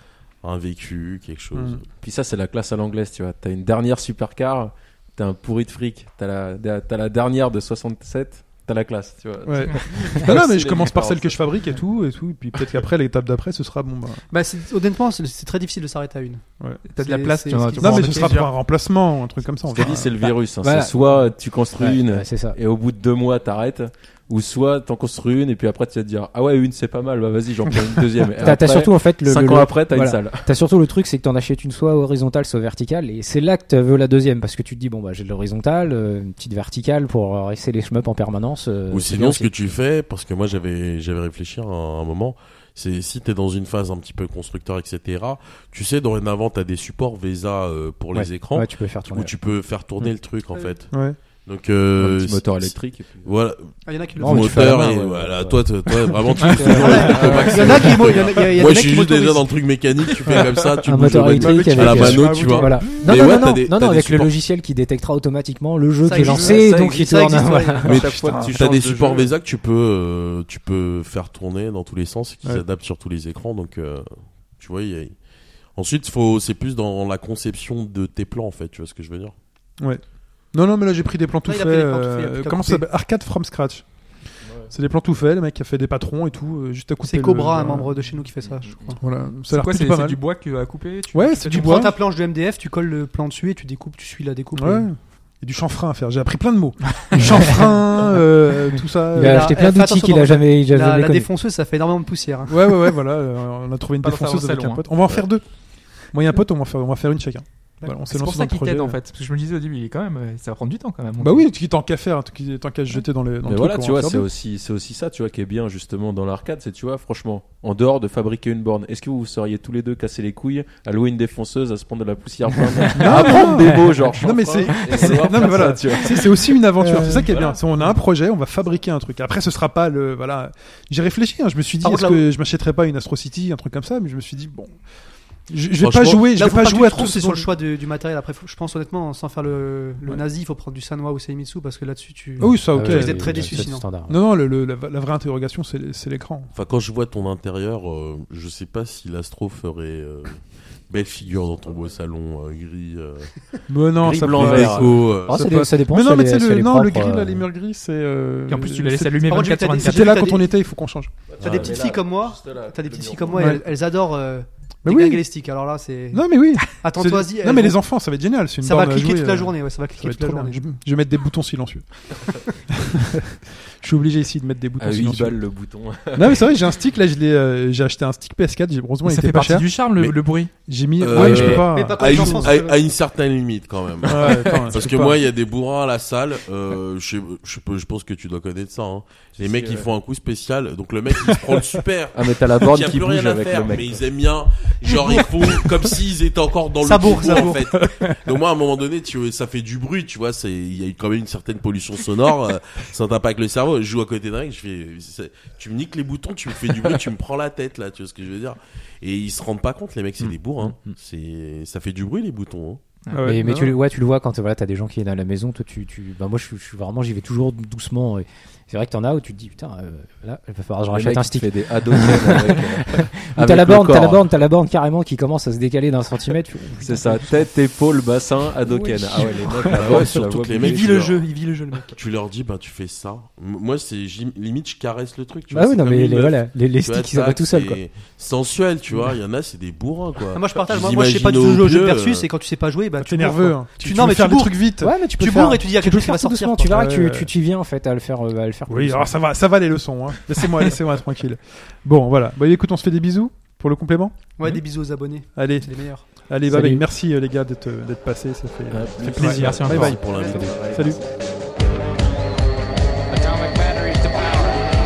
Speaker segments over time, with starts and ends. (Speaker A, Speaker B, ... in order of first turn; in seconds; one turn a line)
Speaker A: 0.4-1.8
Speaker B: 1.6-1.8
Speaker C: 2.0-11.5
Speaker B: 9.4-14.2
Speaker D: 14.3-16.4
Speaker E: 16.8-18.6
Speaker D: 17.0-18.4
Speaker B: 17.8-20.1
Speaker C: 19.7-30.5
Speaker F: 19.9-20.9
Speaker F: 21.7-22.6
Speaker F: 28.4-39.5
Speaker A: 38.9-64.3
Speaker F: 48.1-49.3
Speaker B: 50.9-51.2
Speaker C: 52.0-53.3
Speaker D: 53.9-54.6
Speaker F: 54.2-58.0
Speaker D: 56.8-59.5
Speaker C: 57.1-58.4
Speaker F: 60.8-68.0
Speaker B: 61.4-62.9
Speaker D: 66.0-68.0
Speaker C: 66.2-67.2
Speaker C: 67.8-69.3
Speaker A: 67.8-75.1
Speaker B: 67.9-68.5
Speaker A: 75.8-79.3
Speaker B: 79.8-83.9
Speaker D: 81.5-82.8
Speaker B: 84.7-87.9
Speaker D: 87.0-89.0
Speaker C: 88.4-89.0
Speaker B: 88.9-90.2
Speaker E: 89.5-91.7
Speaker B: 91.1-92.0
Speaker D: 91.5-94.9
Speaker B: 94.6-99.4
Speaker D: 99.2-103.0
Speaker F: 99.2-101.3
Speaker B: 102.5-105.4
Speaker E: 104.0-104.8
Speaker B: 106.0-109.0
Speaker E: 108.0-111.5
Speaker B: 111.2-114.3
Speaker C: 113.5-126.6
Speaker F: 122.8-123.5
Speaker B: 122.9-134.7
Speaker A: 125.0-125.6
Speaker F: 126.8-127.3
Speaker C: 127.3-127.6
Speaker D: 131.8-132.3
Speaker B: 135.5-137.5
Speaker A: 135.8-136.3
Speaker D: 136.3-144.0
Speaker B: 142.4-146.5
Speaker F: 142.4-144.2
Speaker A: 146.5-153.3
Speaker B: 153.7-161.3
Speaker C: 154.0-155.1
Speaker A: 154.0-155.4
Speaker F: 155.3-157.4
Speaker E: 158.5-160.0
Speaker D: 159.3-160.5
Speaker C: 161.3-163.6
Speaker D: 161.4-167.8
Speaker B: 163.3-163.6
Speaker B: 164.9-165.2
Speaker B: 166.1-172.1
Speaker D: 168.6-170.6
Speaker B: 172.7-175.4
Speaker C: 174.8-176.5
Speaker B: 176.1-179.7
Speaker E: 179.1-180.5
Speaker B: 180.7-182.5
Speaker A: 181.0-212.8
Speaker C: 181.1-181.6
Speaker D: 181.5-182.8
Speaker B: 184.1-185.2
Speaker C: 189.4-189.9
Speaker C: 192.1-194.0
Speaker D: 194.8-195.4
Speaker D: 196.8-197.6
Speaker B: 197.1-198.1
Speaker B: 213.1-213.8
Speaker F: 213.2-227.4
Speaker C: 220.9-224.3
Speaker C: 226.8-230.9
Speaker F: 228.7-230.4
Speaker A: 229.7-231.2
Speaker D: 230.6-232.0
Speaker A: 232.0-242.3
Speaker F: 235.5-237.8
Speaker D: 240.3-246.7
Speaker B: 243.0-245.0
Speaker F: 244.8-249.1
Speaker B: 246.6-247.3
Speaker B: 248.7-254.3
Speaker D: 254.4-256.1
Speaker B: 255.3-260.0
Speaker F: 256.5-256.8
Speaker C: 258.7-260.6
Speaker E: 259.2-260.0
Speaker A: 259.6-261.0
Speaker D: 260.0-260.6
Speaker B: 260.6-261.0
Speaker E: 263.1-264.6